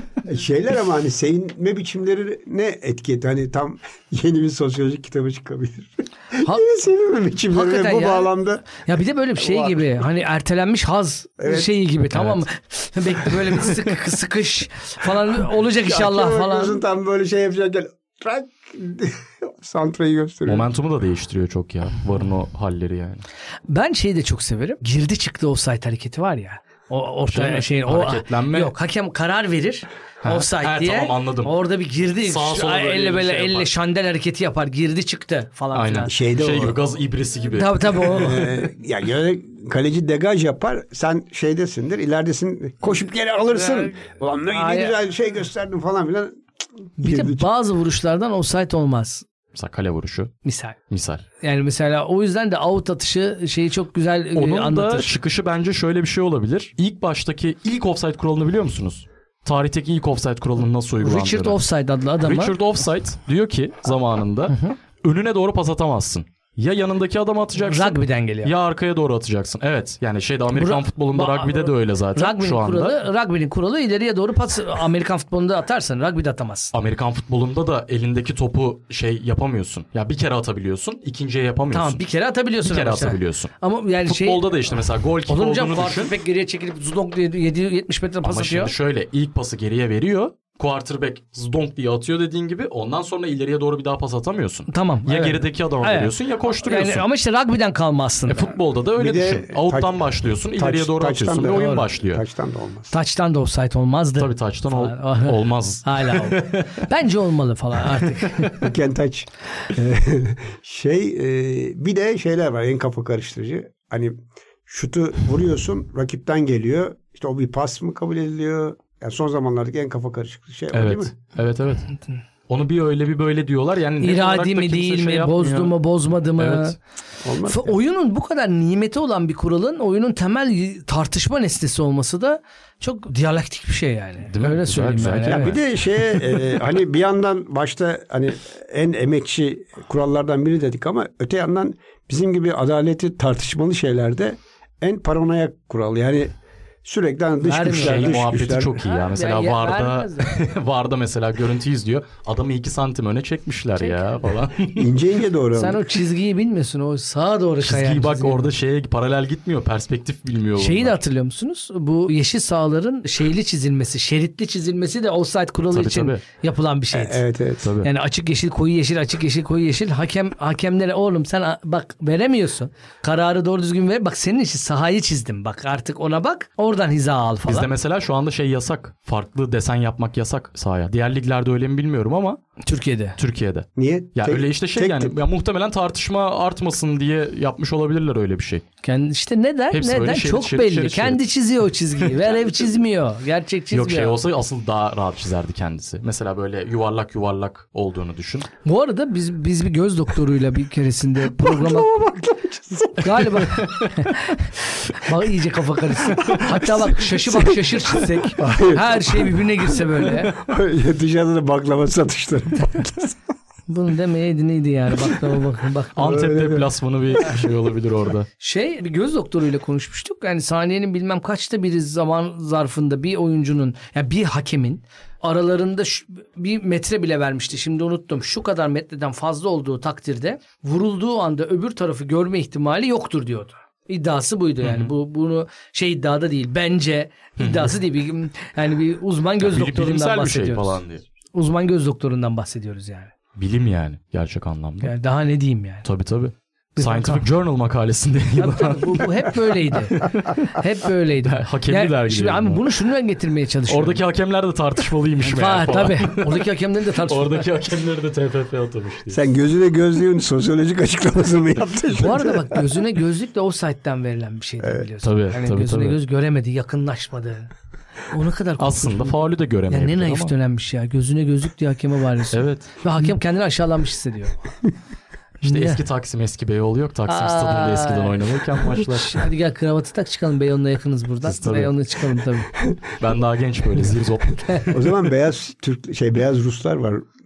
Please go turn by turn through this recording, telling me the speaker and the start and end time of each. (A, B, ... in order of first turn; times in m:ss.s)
0:00.2-0:08.8 A
0:07.5-0:16.8 B
0:09.4-0:09.8 A
0:11.4-0:11.7 A
0:12.1-0:12.4 C
0:15.7-0:20.7 A
0:20.4-0:23.2 C
0:23.7-0:36.3 B
0:27.3-0:28.7 C
0:30.2-0:31.6 C
0:32.2-0:33.7 C
0:35.7-0:38.3 C
0:36.1-0:36.8 A
0:37.5-0:38.5 B
0:38.1-0:46.4 A
0:44.5-0:44.9 B
0:47.0-0:47.5 A
0:47.0-0:49.2 B
0:49.5-0:50.3 C
0:50.4-0:50.8 B
0:50.9-0:51.2 C
0:51.4-0:55.1 B
0:54.3-1:01.6 C
1:01.0-1:02.6 B
1:02.2-1:13.0 C
1:07.6-1:08.5 B
1:10.5-1:16.7 B
1:16.7-1:22.0 C
1:21.7-1:24.5 B
1:22.6-1:23.5 C
1:24.0-1:26.1 C
1:25.3-1:28.7 B
1:28.2-1:37.0 C
1:34.7-1:38.5 B
1:38.3-1:42.2 C
1:39.0-1:42.9 A
1:41.4-1:41.8 B
1:42.9-1:48.6 B
1:44.2-1:46.6 C
1:48.6-2:01.1 A
2:00.7-2:01.9 C
2:02.5-2:05.7 C
2:04.0-2:06.8 B
2:06.4-2:06.8 C
2:07.2-2:07.8 A
2:07.4-2:15.6 B
2:14.3-2:15.7 C
2:15.3-2:28.8 A
2:27.4-2:28.2 B
2:27.6-2:35.0 C
2:28.8-2:30.4 B
2:33.8-2:34.1 B
2:34.8-2:35.8 A
2:35.5-2:38.5 B
2:37.6-2:41.0 C
2:40.6-2:47.2 B
2:45.7-2:46.2 C
2:46.9-2:47.6 A
2:47.6-2:47.9 C
2:47.8-2:57.7 B
2:57.5-3:02.6 C
3:02.6-3:03.2 B
3:03.2-3:08.6 C
3:03.8-3:05.2 A
3:08.8-3:14.2 B
3:09.7-3:11.2 C
3:13.7-3:18.5 C
3:18.6-3:22.0 B
3:21.4-3:23.2 A
3:23.0-3:30.4 B
3:23.6-3:23.9 C
3:26.2-3:26.6 A
3:28.4-3:33.2 A
3:33.7-3:36.2 B
3:35.9-3:38.3 C
3:36.0-3:36.6 A
3:38.4-4:00.8 B
3:54.6-3:54.9 C
3:57.4-3:57.8 C
3:59.4-4:01.0 C
4:01.3-4:03.1 B
4:03.4-4:04.9 C
4:04.8-4:05.8 B
4:05.8-4:09.0 C
4:06.8-4:07.2 B
4:08.4-4:14.0 B
4:10.0-4:10.3 C
4:11.2-4:12.6 C
4:13.7-4:16.5 C
4:15.2-4:17.4 B
4:17.1-4:19.2 C
4:19.1-4:22.5 A
4:22.0-4:27.5 B
4:25.0-4:26.0 C
4:28.1-4:29.2 B
4:28.6-4:30.3 C
4:29.7-4:34.4 B
4:32.3-4:32.7 C
4:35.4-4:35.8 B
4:35.4-4:39.3 C
4:37.1-4:38.2 B
4:38.7-4:42.5 B
4:41.2-4:41.7 C
4:43.0-4:44.7 C
4:44.7-4:47.0 A